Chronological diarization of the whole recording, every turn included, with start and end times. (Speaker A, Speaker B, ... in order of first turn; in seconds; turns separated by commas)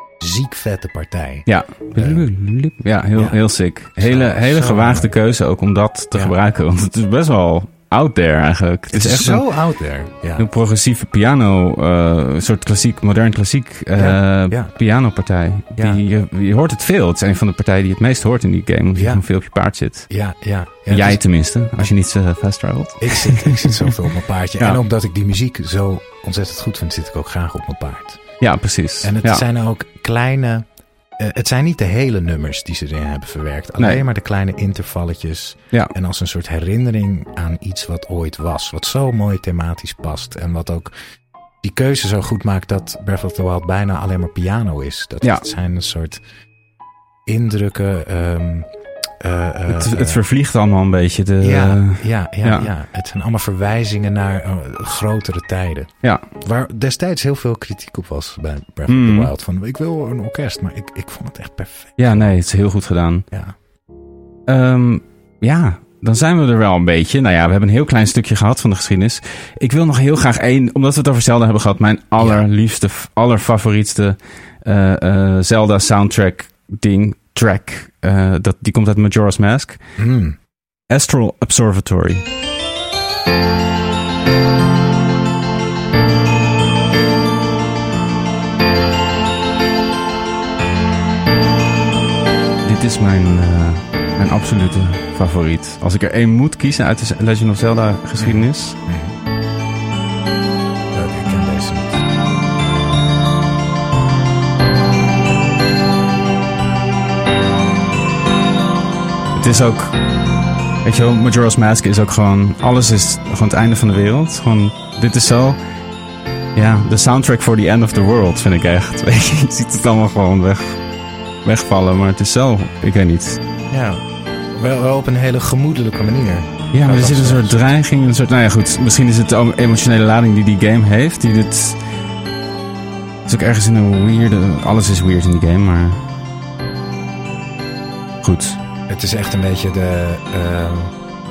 Speaker A: 0.2-2.3, Speaker B: 1.5-9.4, Speaker A: 3.1-3.4, Speaker A: 4.0-5.1, Speaker A: 8.9-10.5, Speaker B: 10.4-20.1, Speaker A: 13.9-14.7, Speaker A: 15.8-16.0, Speaker A: 18.9-19.2, Speaker A: 20.1-21.2, Speaker B: 20.9-23.9, Speaker A: 23.0-28.2, Speaker B: 28.4-29.4, Speaker A: 29.0-30.6, Speaker A: 31.2-40.9, Speaker A: 41.6-46.2, Speaker A: 47.2-48.7, Speaker A: 49.2-50.2, Speaker B: 49.7-52.7, Speaker A: 51.4-62.3, Speaker B: 58.9-59.3, Speaker B: 62.0-63.2, Speaker B: 64.5-79.8, Speaker A: 72.2-72.4, Speaker A: 80.0-80.3, Speaker B: 80.9-82.2, Speaker B: 92.6-98.8, Speaker A: 98.2-99.2, Speaker A: 100.9-102.1, Speaker B: 109.3-110.0, Speaker B: 110.8-115.6, Speaker B: 116.5-120.8, Speaker B: 121.4-123.4, Speaker A: 123.7-127.7, Speaker B: 126.7-131.8, Speaker B: 133.2-136.0, Speaker B: 138.2-138.6, Speaker A: 138.9-140.9